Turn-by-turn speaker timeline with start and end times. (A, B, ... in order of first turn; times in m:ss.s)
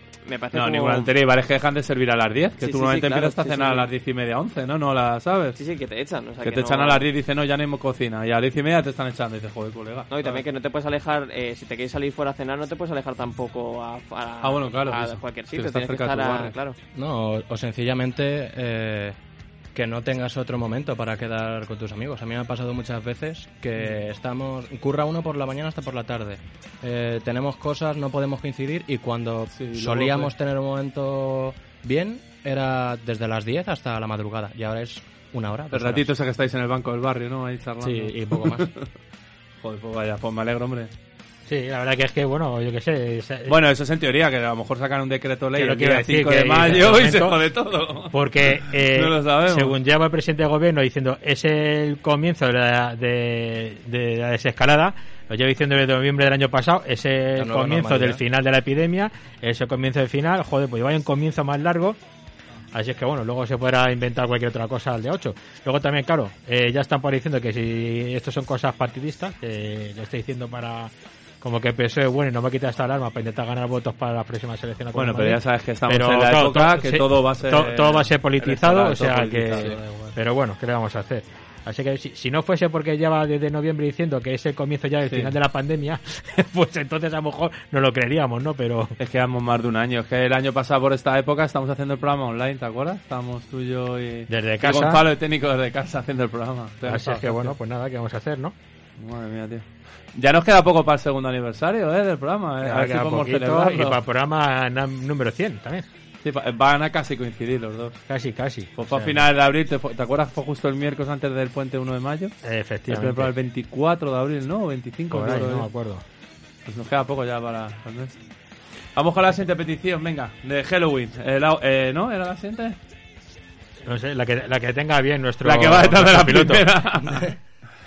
0:00.3-0:01.1 A
0:00.5-0:05.6 B
0:02.6-0:03.9 A
0:05.6-0:07.1 A
0:06.4-0:10.4 B
0:10.1-0:16.8 A
0:14.4-0:16.6 B
0:17.0-0:19.2 C
0:19.7-0:36.1 C
0:29.5-0:30.3 B
0:35.7-0:38.8 B
0:37.8-0:38.7 C
0:39.6-0:40.9 B
0:41.5-0:43.6 D
0:43.5-0:49.8 B
0:45.6-0:47.4 D
0:48.1-1:02.0 D
0:57.4-0:58.2 C
1:02.7-1:29.0 D
1:14.9-1:20.1 B
1:29.0-1:37.6 B
1:34.3-1:35.1 D
1:36.9-1:38.5 D
1:39.0-1:44.0 B
1:42.6-1:45.9 D
1:46.2-1:48.0 B
1:48.1-1:48.7 D
1:48.8-1:52.3 B
1:52.4-1:53.3 D
1:52.9-1:55.7 B
1:55.1-1:56.0 D
1:56.7-1:58.2 B
1:59.0-2:02.8 B
2:03.8-2:06.7 D
2:05.4-2:07.3 B